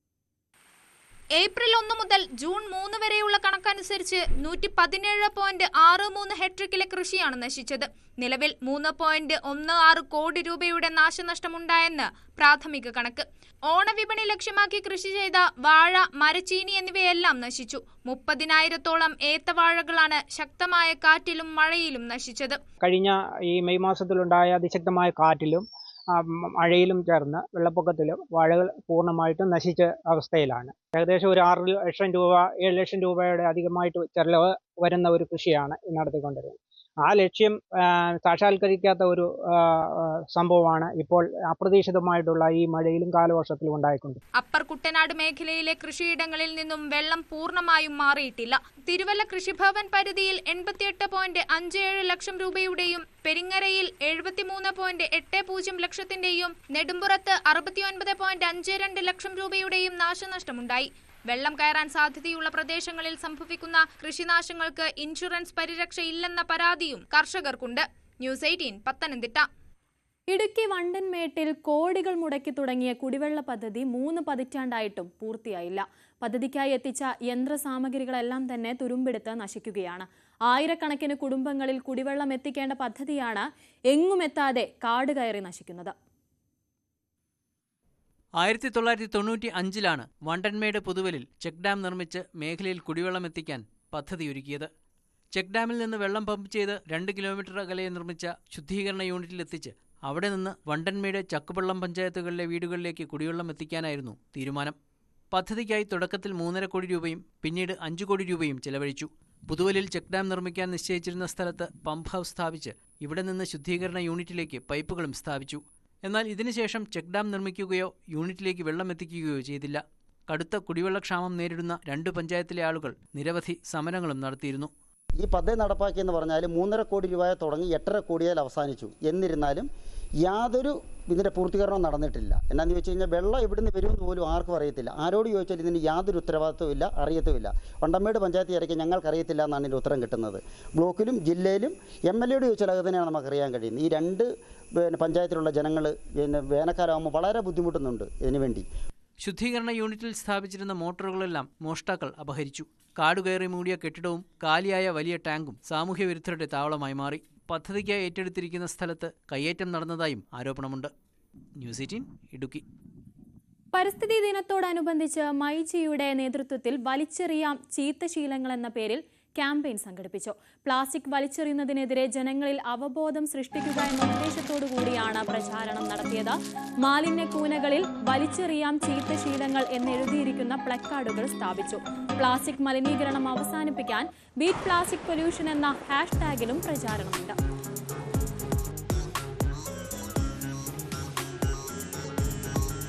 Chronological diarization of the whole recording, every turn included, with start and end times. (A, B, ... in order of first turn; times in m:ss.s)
0:01.4-0:22.6 A
0:22.8-0:44.2 B
0:44.4-1:09.5 A
1:10.3-1:25.9 C
1:28.4-1:34.7 D
1:35.3-1:44.8 D
1:45.3-2:04.7 D
2:05.2-2:09.7 E
2:10.2-2:24.3 E
2:24.8-2:28.6 E
2:29.2-2:40.9 D
2:41.6-2:42.6 D
2:43.7-3:07.4 C